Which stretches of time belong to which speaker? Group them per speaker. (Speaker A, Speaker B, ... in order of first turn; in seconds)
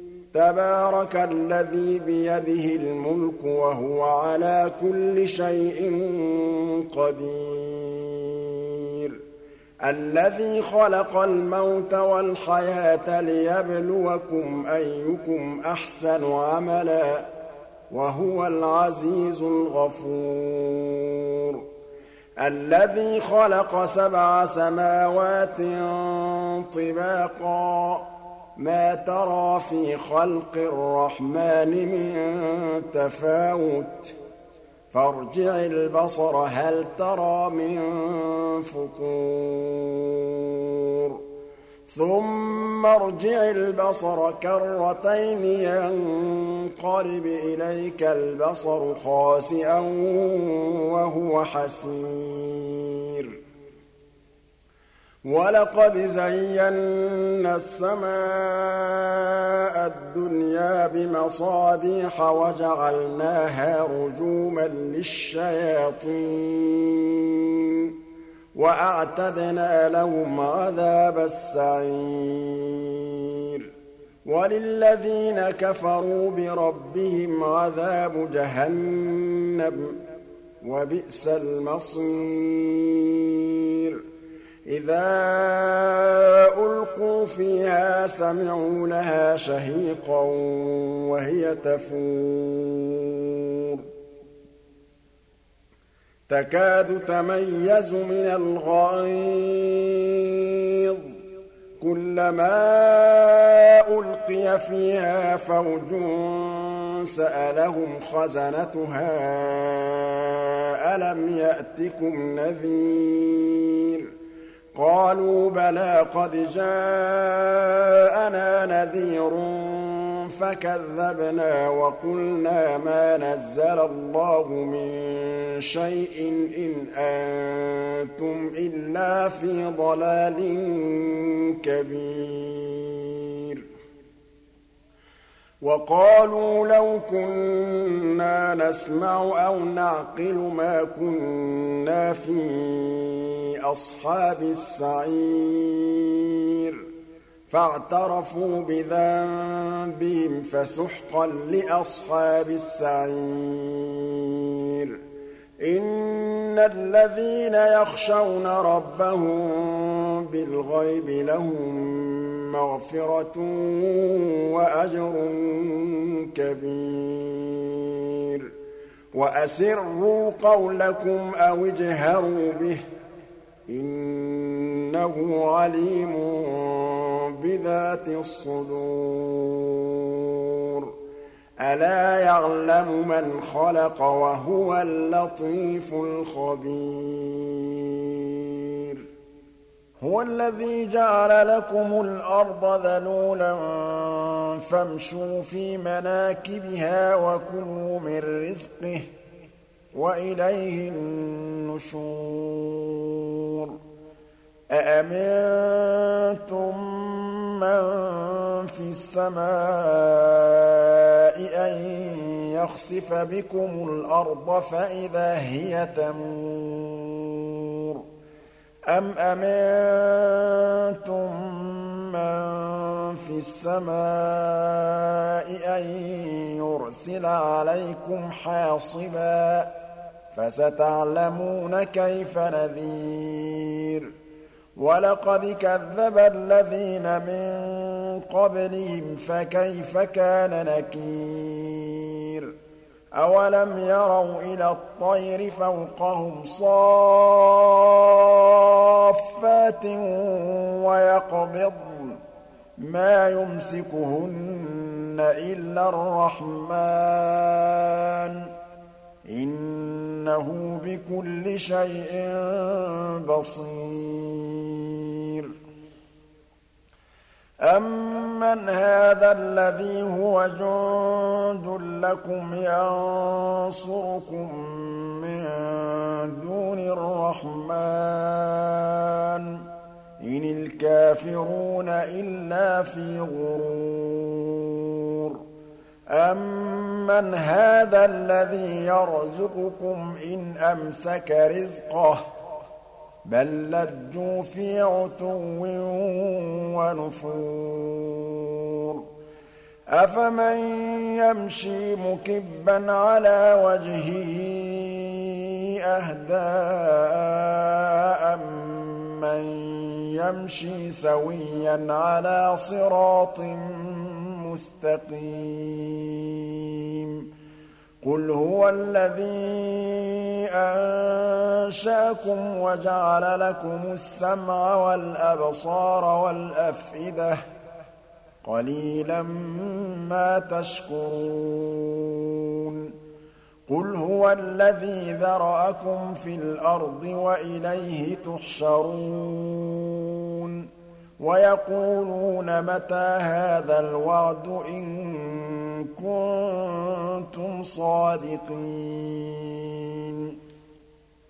Speaker A: 0.3-9.2, 9.8-17.3, 17.9-21.6, 22.4-34.1, 34.9-41.2, 41.9-53.3, 55.2-67.9, 68.5-73.7, 74.2-80.0, 80.6-84.0, 84.7-93.8, 96.3-101.1, 101.8-114.1, 114.7-133.6, 135.6-146.8, 147.5-155.0, 155.6-168.5, 169.1-172.8, 173.7-180.9, 181.6-189.0, 190.0-199.1, 199.9-203.8, 204.7-218.0, 218.9-229.7, 230.3-234.1, 234.8-242.5, 243.2-252.2, 252.8-258.5, 259.3-265.5, 267.6-279.6, 280.2-285.4, 286.1-292.2, 293.2-299.0, 299.9-317.3, 318.0-327.4, 328.4-332.9, 333.7-340.7, 341.2-350.4